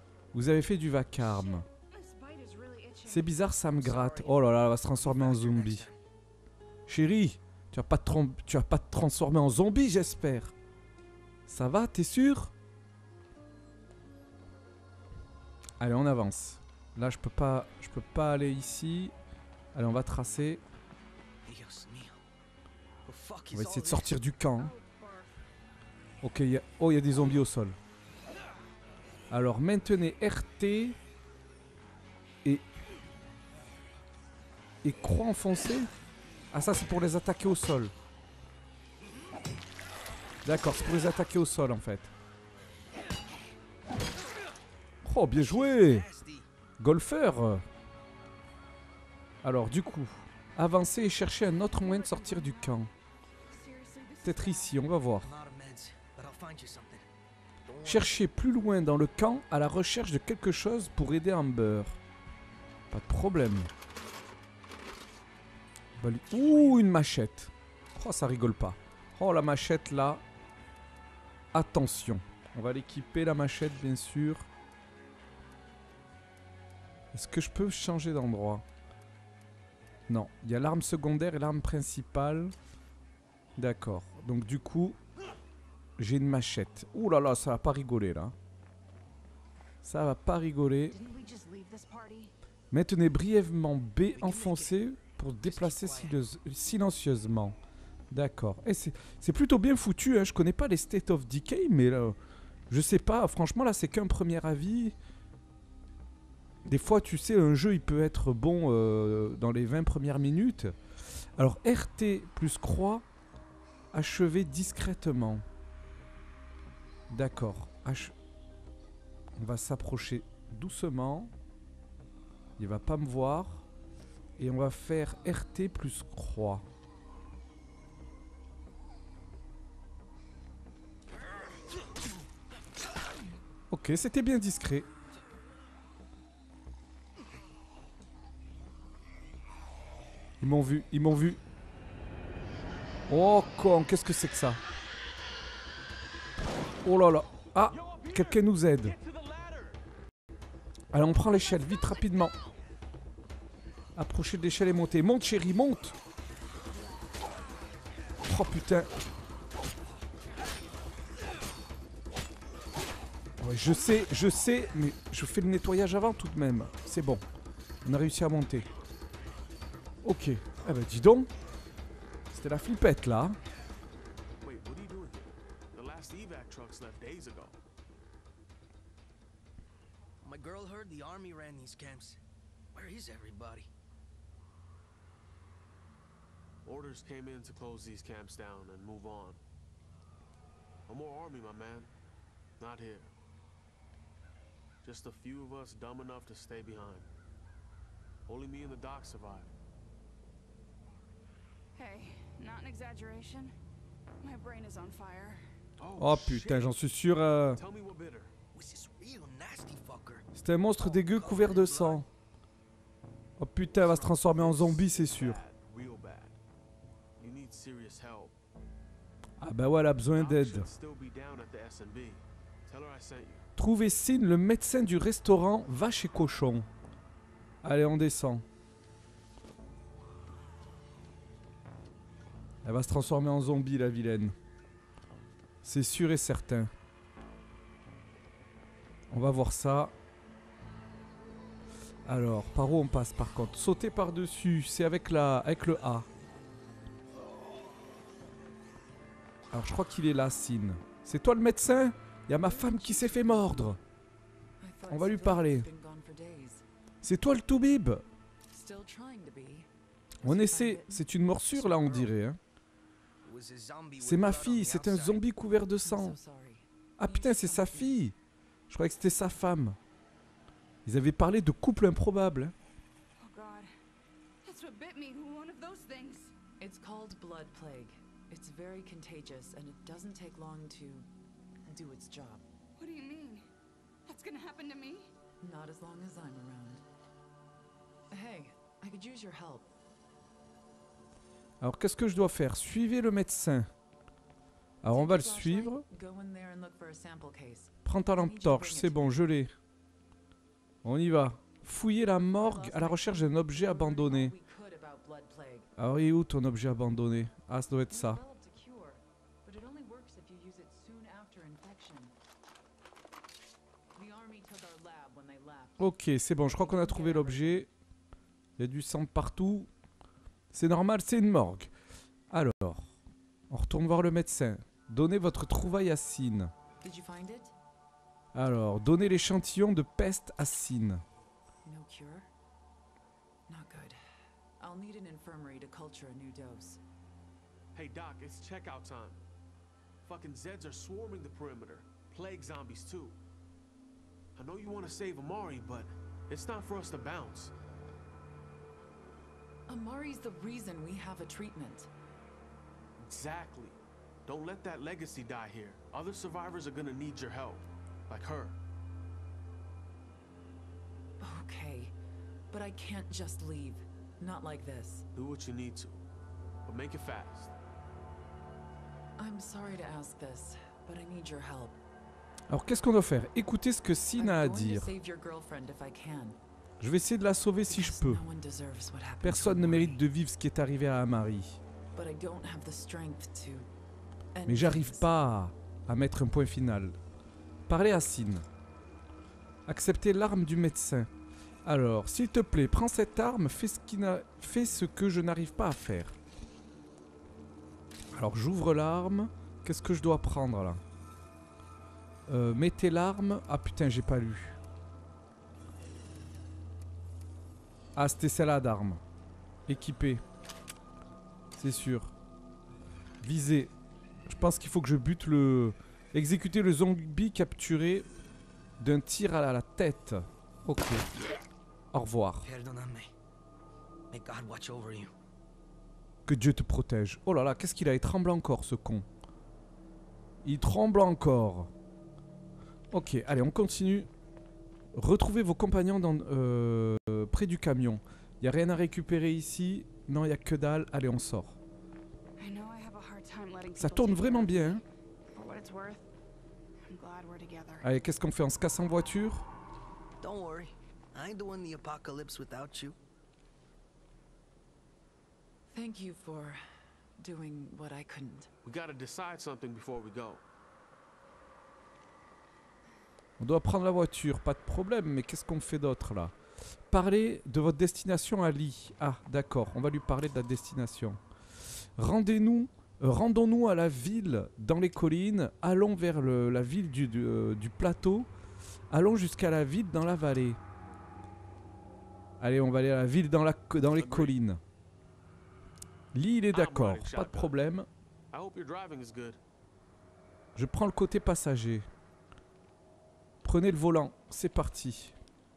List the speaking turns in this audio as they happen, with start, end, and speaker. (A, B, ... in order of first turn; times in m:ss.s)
0:00.3-0:01.7 A
0:01.2-0:03.4 B
0:03.0-0:05.9 A
0:03.8-0:06.0 C
0:06.9-0:10.5 A
0:11.5-0:12.5 A
0:15.8-0:19.1 A
0:19.7-0:20.6 A
0:21.4-0:22.2 C
0:23.0-0:24.2 C
0:23.5-0:24.8 A
0:24.6-0:25.3 B
0:26.2-0:27.8 A
0:29.3-0:31.0 A
0:34.8-0:35.9 A
0:36.5-0:37.9 A
0:40.4-0:42.1 A
0:45.0-0:46.1 A
0:45.3-0:46.5 C
0:46.8-0:47.7 A
0:49.4-0:52.9 A
0:51.5-0:52.9 B
0:53.5-0:54.8 B
0:54.2-0:55.4 A
0:55.2-0:57.1 C
0:57.7-0:58.2 C
0:57.8-1:02.0 A
1:02.9-1:03.7 A
1:06.0-1:10.2 A
1:11.5-1:14.5 A
1:17.1-1:18.6 A
1:20.1-1:22.6 A
1:23.6-1:25.0 A
1:26.0-1:28.4 A
1:29.8-1:31.0 A
1:30.9-1:32.3 B
1:32.7-1:37.6 A
1:34.2-1:34.8 C
1:35.4-1:36.2 C
1:38.1-1:42.2 A
1:42.7-1:45.0 A
1:46.6-1:50.8 A
1:51.4-1:53.0 A
1:53.9-1:55.4 A
1:57.1-1:58.1 A
1:59.4-2:01.3 A
2:02.6-2:03.7 A
2:04.4-2:06.6 A
2:13.7-2:14.9 A
2:20.4-2:21.4 A
2:23.1-2:24.6 A
2:26.8-2:29.0 A
2:27.7-2:29.8 D
2:30.9-2:32.3 A
2:34.0-2:36.0 A
2:38.2-2:38.9 A
2:43.4-2:47.2 A
2:47.8-2:48.7 A
2:50.0-2:51.3 A
2:52.3-2:53.4 A
2:54.4-2:57.6 D
3:00.2-3:02.2 C
3:02.7-3:03.7 C
3:06.6-3:09.4 D
3:10.9-3:11.9 D
3:12.6-3:13.1 D
3:14.8-3:17.1 D
3:18.3-3:19.5 D
3:21.8-3:23.5 B
3:24.2-3:25.4 B
3:25.8-3:26.7 D
3:26.0-3:27.6 A
3:27.5-3:28.3 D
3:28.5-3:30.3 C
3:30.4-3:32.1 A
3:30.8-3:32.1 C
3:33.4-3:35.4 A
3:33.8-3:34.2 C
3:34.3-3:36.4 D
3:37.2-3:38.4 D
3:39.4-3:40.7 A
3:40.1-3:43.4 D
3:43.6-3:46.7 A
3:47.6-3:48.4 A
3:52.6-3:54.4 A
3:55.6-3:56.7 A
3:59.1-3:59.9 A
4:02.1-4:06.1 A
4:09.5-4:13.8 A
4:12.3-4:13.8 E
4:14.6-4:16.6 E
4:14.9-4:15.7 A
4:17.0-4:18.0 A
4:18.5-4:19.7 E
4:20.2-4:22.1 E
4:20.2-4:22.4 A
4:23.2-4:25.2 C
4:24.0-4:26.2 A
4:25.8-4:28.0 E
4:27.0-4:28.2 A
4:28.7-4:29.8 A
4:30.8-4:32.5 A
4:33.2-4:33.7 B
4:34.4-4:36.3 B
4:36.6-4:41.1 E
4:41.7-4:42.4 E
4:42.8-4:43.5 B
4:44.1-4:45.1 B
4:45.4-4:46.8 E
4:48.1-4:49.7 E
4:51.6-4:53.7 A
4:54.8-4:55.8 A
4:54.9-4:59.2 E
4:57.8-4:59.6 A
5:00.8-5:04.4 A
5:02.3-5:05.7 E
5:05.8-5:08.2 A
5:07.9-5:12.1 E
5:14.0-5:17.7 E
5:15.8-5:17.7 A
5:18.6-5:19.7 A
5:20.5-5:21.7 A
5:22.3-5:22.9 A
5:23.5-5:26.5 A
5:26.8-5:27.6 E
5:28.3-5:31.0 A
5:31.6-5:32.3 E
5:33.5-5:34.0 E
5:34.6-5:36.8 E
5:37.7-5:39.2 D
5:40.0-5:43.2 D
5:44.4-5:47.5 D
5:49.7-5:51.9 E
5:53.0-5:58.6 D
6:01.2-6:01.9 E
6:02.5-6:05.1 E
6:05.2-6:06.0 D
6:06.7-6:07.5 D
6:09.2-6:11.8 E
6:12.5-6:14.9 A
6:14.2-6:16.4 E
6:16.8-6:18.2 A
6:17.7-6:20.0 E
6:19.2-6:21.6 A
6:21.9-6:23.7 E
6:24.3-6:25.2 E
6:24.5-6:27.0 A
6:27.7-6:28.4 A
6:29.7-6:31.1 A
6:31.6-6:36.2 A
6:38.1-6:40.8 A
6:42.3-6:44.6 A
6:48.0-6:49.0 A
6:49.7-6:50.2 A
6:51.6-6:52.1 A
6:53.2-6:53.7 A
6:54.3-6:58.1 A
6:58.8-7:01.1 A
7:01.9-7:02.5 A
7:02.4-7:03.1 C
7:04.1-7:05.1 C
7:06.3-7:09.1 A
7:10.4-7:11.7 A
7:12.9-7:14.1 A
7:15.0-7:21.6 A
7:22.4-7:24.8 B
7:23.7-7:24.8 A
7:25.3-7:26.1 B
7:26.9-7:27.9 B
7:27.8-7:29.5 A
7:30.2-7:33.0 C
7:35.7-7:36.6 E
7:37.2-7:38.5 E
7:38.6-7:40.4 D
7:43.4-7:46.3 A
7:46.9-7:51.2 A
7:52.0-7:58.3 A
7:58.9-8:00.6 A
8:02.4-8:04.6 A
8:03.9-8:04.4 D
8:06.1-8:07.9 A
8:06.5-8:07.6 D
8:08.3-8:09.4 D
8:10.6-8:11.9 A
8:13.4-8:15.2 A